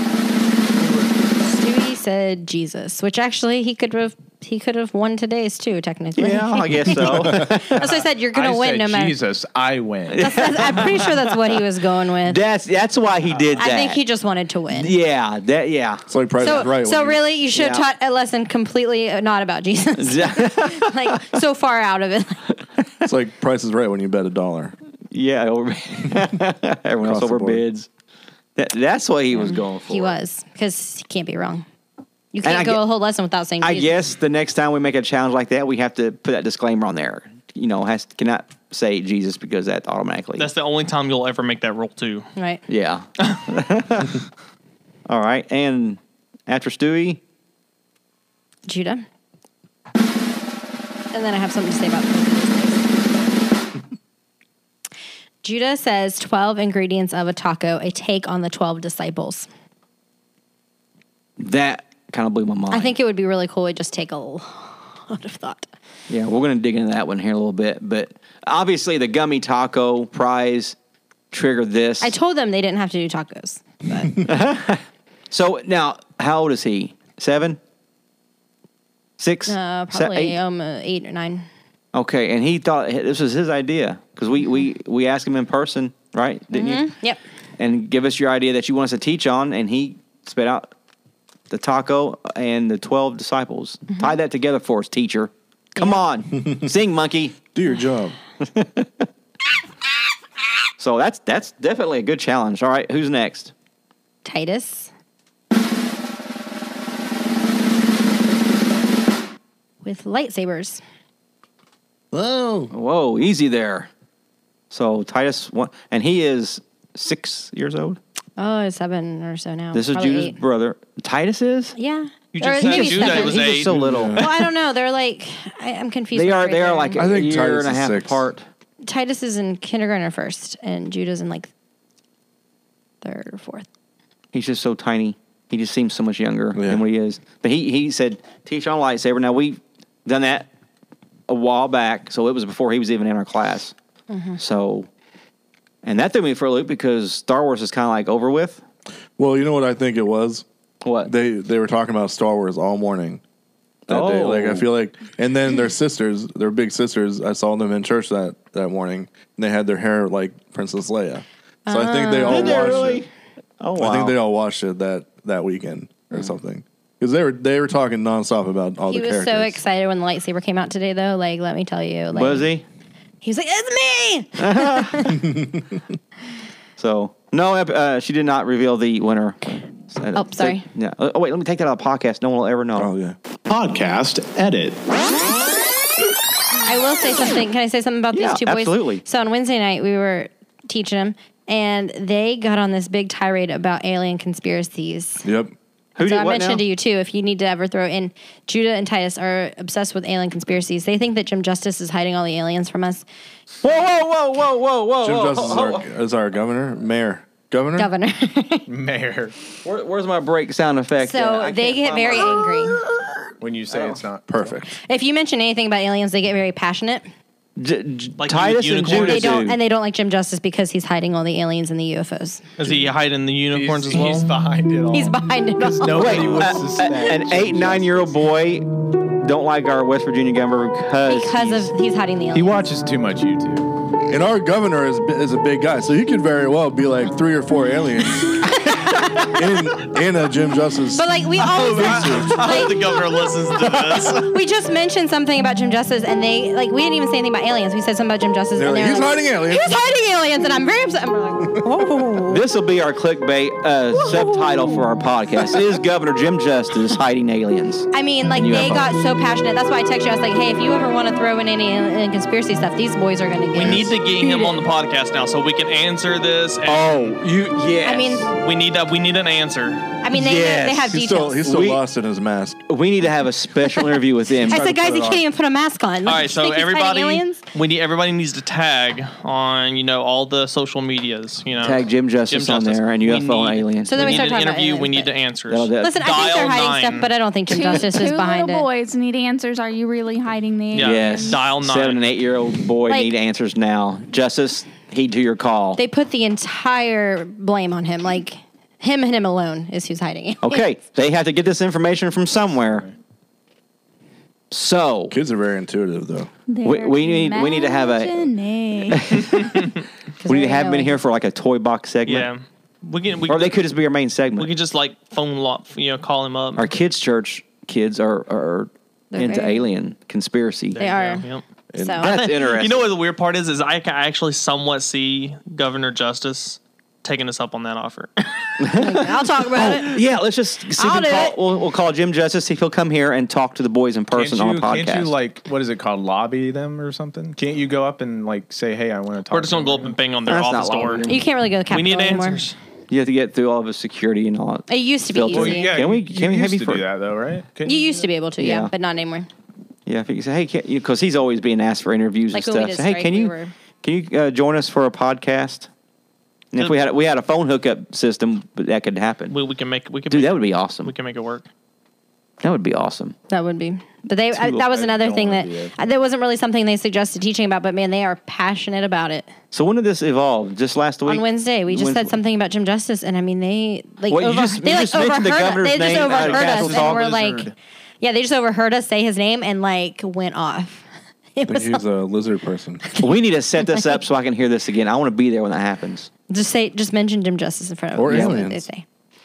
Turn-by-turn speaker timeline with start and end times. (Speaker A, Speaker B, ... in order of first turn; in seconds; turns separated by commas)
Speaker A: 0.8-1.1, Speaker B: 1.4-9.2, Speaker A: 6.2-7.9, Speaker C: 6.9-7.5, Speaker D: 7.8-10.5, Speaker A: 10.1-11.5, Speaker B: 10.2-12.4, Speaker A: 12.2-14.0, Speaker B: 13.6-14.9, Speaker A: 14.7-16.7, Speaker C: 16.1-17.2, Speaker B: 16.4-22.5, Speaker A: 17.5-17.9, Speaker A: 20.0-21.2, Speaker C: 23.1-24.8, Speaker A: 25.1-27.9, Speaker C: 27.0-27.6, Speaker A: 28.6-30.2, Speaker B: 29.3-31.6, Speaker B: 32.3-34.0, Speaker A: 32.4-32.9, Speaker A: 33.6-40.5, Speaker E: 40.4-42.3, Speaker B: 42.4-42.6, Speaker A: 42.7-44.2, Speaker A: 45.1-47.2, Speaker B: 48.7-49.0, Speaker B: 51.1-52.9, Speaker B: 55.4-59.5, Speaker A: 61.4-63.0, Speaker B: 62.7-65.7, Speaker A: 66.1-70.8, Speaker A: 71.3-72.2, Speaker B: 72.0-74.3, Speaker A: 74.2-77.6, Speaker A: 79.2-80.4, Speaker B: 79.5-81.5, Speaker A: 81.9-86.9, Speaker B: 86.5-87.2, Speaker A: 87.6-90.7, Speaker A: 91.5-97.4, Speaker B: 95.8-96.0, Speaker C: 97.5-98.2, Speaker A: 98.4-99.1, Speaker A: 100.8-103.5, Speaker B: 104.2-104.9, Speaker B: 109.8-110.8, Speaker C: 112.1-112.7, Speaker A: 112.7-113.9, Speaker A: 114.7-118.0, Speaker B: 118.4-120.4, Speaker A: 119.7-121.8, Speaker B: 121.8-123.5, Speaker E: 122.3-123.7, Speaker A: 122.4-124.4, Speaker C: 123.7-124.4, Speaker B: 124.2-127.1, Speaker A: 126.1-128.4, Speaker C: 127.0-128.3, Speaker B: 128.8-131.5, Speaker B: 133.0-133.7, Speaker A: 134.3-140.5, Speaker C: 136.6-136.8, Speaker A: 141.3-143.7, Speaker B: 144.1-144.4, Speaker A: 144.4-144.9, Speaker A: 145.8-148.6, Speaker C: 149.2-150.4, Speaker A: 150.8-151.1, Speaker C: 151.0-153.2, Speaker A: 153.9-154.7, Speaker C: 153.9-163.0, Speaker B: 161.7-162.9, Speaker A: 162.2-163.1, Speaker A: 163.6-164.2, Speaker C: 163.8-169.6, Speaker B: 168.9-172.5, Speaker A: 172.1-172.7, Speaker B: 173.2-175.2, Speaker A: 174.4-175.2, Speaker C: 175.2-175.8, Speaker A: 176.8-182.9, Speaker B: 180.2-180.7, Speaker C: 182.8-183.2, Speaker D: 183.5-184.8, Speaker B: 186.7-195.3, Speaker A: 188.1-189.0, Speaker C: 195.2-195.5, Speaker A: 196.0-196.6, Speaker B: 196.0-203.1, Speaker A: 203.6-205.9, Speaker C: 205.0-207.9, Speaker B: 207.8-208.7, Speaker D: 208.7-209.3, Speaker A: 209.6-213.1, Speaker B: 211.0-212.8, Speaker D: 213.4-214.6, Speaker A: 213.7-214.0, Speaker C: 214.3-214.7, Speaker B: 214.8-217.1, Speaker A: 217.6-219.6, Speaker E: 218.2-219.4, Speaker B: 218.9-222.4, Speaker D: 222.6-222.9, Speaker E: 222.6-224.3, Speaker D: 223.5-228.1, Speaker B: 224.9-226.5, Speaker A: 225.9-231.7, Speaker B: 231.1-232.7, Speaker D: 232.3-233.7, Speaker C: 234.1-242.7, Speaker B: 238.6-239.4, Speaker B: 240.9-242.8, Speaker E: 241.5-244.3, Speaker B: 244.2-252.4, Speaker C: 248.6-249.7, Speaker A: 252.3-258.9, Speaker B: 257.9-264.6, Speaker E: 263.5-267.2, Speaker C: 263.6-263.9, Speaker A: 266.6-268.3, Speaker B: 267.9-268.3, Speaker E: 268.4-269.9, Speaker B: 270.0-271.5, Speaker A: 270.1-271.8, Speaker C: 270.9-272.6, Speaker A: 272.7-274.7, Speaker C: 274.5-275.2, Speaker B: 274.5-277.4, Speaker E: 276.1-287.1, Speaker A: 281.6-284.3, Speaker B: 283.9-285.1, Speaker A: 285.5-286.0, Speaker B: 285.8-288.7, Speaker F: 287.5-291.4, Speaker E: 290.7-292.0, Speaker A: 290.8-295.8, Speaker B: 292.9-293.1, Speaker B: 295.8-300.7, Speaker A: 300.4-302.9, Speaker A: 304.5-305.1, Speaker C: 305.1-306.3, Speaker F: 306.5-309.1, Speaker A: 306.6-308.3, Speaker A: 308.9-309.7, Speaker B: 310.2-311.0, Speaker A: 310.3-312.3, Speaker E: 312.1-313.6, Speaker A: 313.3-314.5, Speaker E: 314.4-316.7, Speaker A: 316.6-320.8, Speaker B: 319.1-319.7, Speaker E: 320.7-321.4, Speaker B: 320.8-321.2, Speaker C: 321.7-322.0, Speaker B: 321.8-322.1, Speaker A: 322.0-322.9, Speaker E: 322.0-328.1, Speaker A: 328.6-335.1, Speaker B: 328.7-330.0, Speaker B: 330.8-331.4, Speaker D: 334.1-340.0, Speaker E: 339.3-341.1, Speaker A: 340.3-341.2, Speaker B: 341.1-342.4, Speaker E: 341.7-342.6, Speaker A: 342.9-346.9, Speaker B: 344.7-345.8, Speaker D: 345.3-348.0, Speaker B: 347.6-349.3, Speaker A: 348.4-348.7, Speaker A: 349.9-355.7, Speaker B: 352.3-353.5, Speaker A: 356.5-359.4, Speaker E: 356.6-356.9, Speaker E: 359.3-361.4, Speaker A: 360.1-360.9, Speaker A: 362.4-363.2, Speaker B: 363.3-369.3, Speaker D: 364.4-365.8, Speaker A: 369.5-372.2, Speaker B: 371.1-381.8, Speaker A: 374.1-377.1, Speaker D: 375.9-377.5, Speaker C: 381.5-382.8, Speaker A: 383.0-386.1, Speaker B: 386.3-388.9, Speaker C: 387.9-388.6, Speaker A: 388.1-388.4